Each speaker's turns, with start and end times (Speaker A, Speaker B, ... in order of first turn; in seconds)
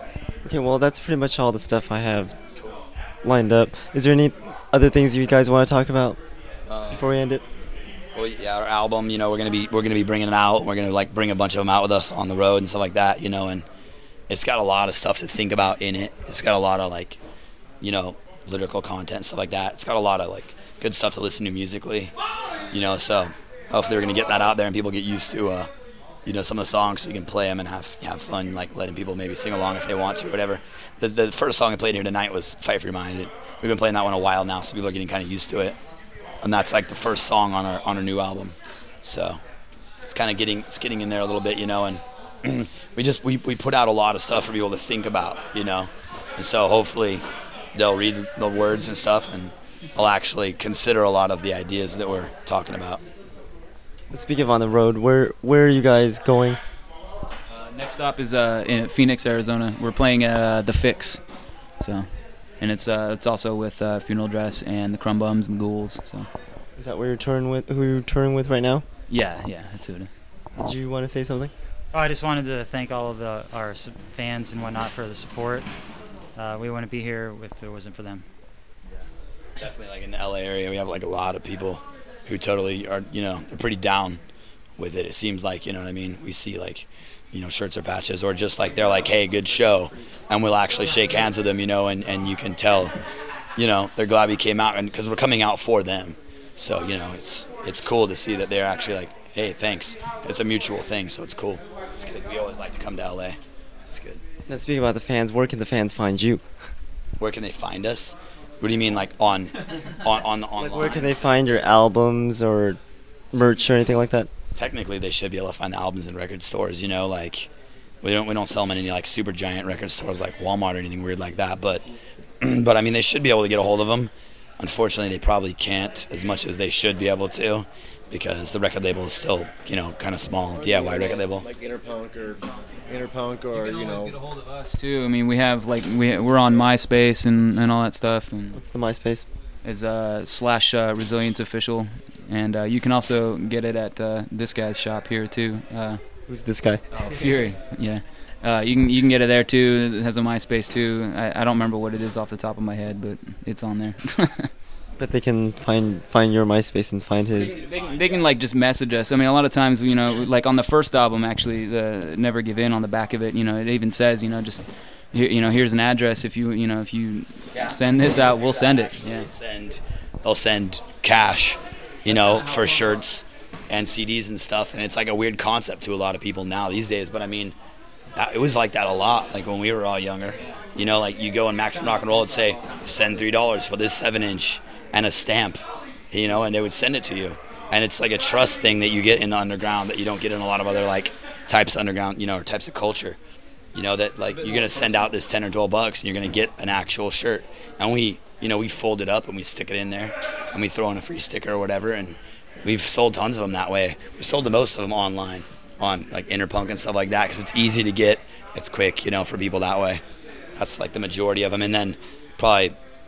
Speaker A: 0.4-2.3, 3.2-6.2, 6.9-7.4, 54.1-56.6, 66.8-68.8, 70.6-71.5, 104.5-106.4, 110.6-112.8, 113.3-114.3, 138.5-139.2, 146.3-146.8, 155.0-157.6
Speaker B: 6.7-7.1, 8.1-13.6, 14.3-17.2, 17.8-22.1, 22.7-25.7, 26.2-35.8, 36.4-39.4, 40.0-53.0, 79.6-84.2, 84.8-92.9, 93.6-103.4, 103.9-104.2, 107.2-111.3, 114.5-117.5, 118.0-121.8, 122.4-131.4, 157.3-158.3, 167.5-177.5, 178.2-193.2, 193.7-210.0, 210.6-212.8
Speaker C: 57.5-61.2, 61.8-62.1, 62.6-66.3, 69.1-70.1, 133.5-138.6, 139.6-146.0, 146.9-154.5, 157.5-169.3, 172.1-173.0, 181.7-183.2, 194.3-195.2
Speaker D: 71.9-75.7, 76.3-78.2
Speaker E: 130.5-134.2